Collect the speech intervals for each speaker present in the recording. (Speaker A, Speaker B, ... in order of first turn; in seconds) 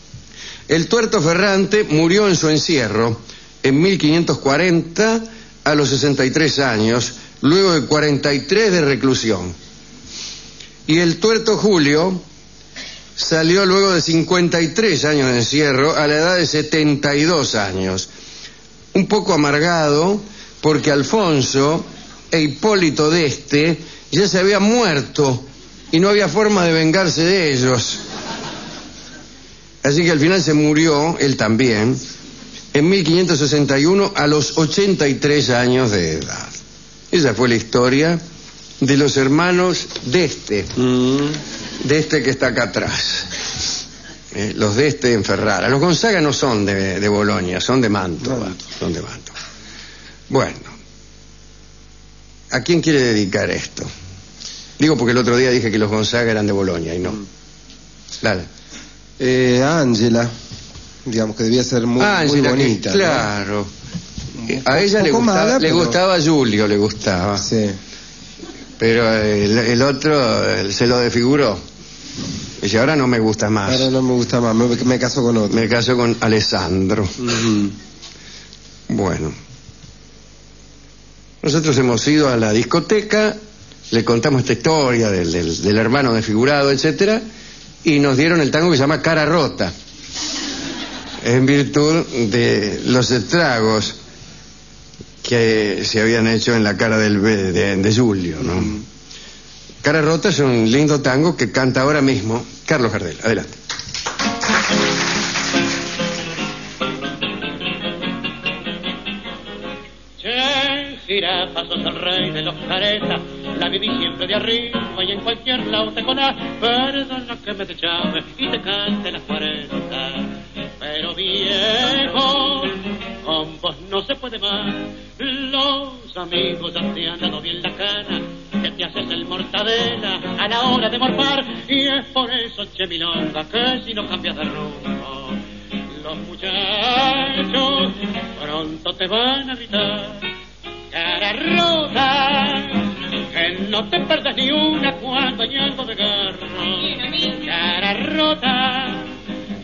Speaker A: 0.7-9.6, 10.9-12.2, 13.2-18.1, 18.9-28.0, 29.8-32.0, 32.7-36.5, 37.1-38.2, 38.8-40.7, 41.8-43.3, 44.3-49.3, 50.3-50.7, 52.5-53.9, 54.8-57.2, 58.2-58.5, 62.0-63.7, 64.5-67.5, 68.8-71.6, 72.6-73.9, 75.5-77.2, 78.9-79.4, 81.4-83.4, 83.9-87.2, 87.8-89.7, 91.2-94.0, 95.2-98.8, 99.8-103.5
Speaker B: 40.8-41.4, 59.2-60.3, 61.1-63.3, 64.4-66.0, 67.4-67.8, 73.7-75.6, 77.2-77.7
Speaker C: 110.2-140.3, 140.9-149.1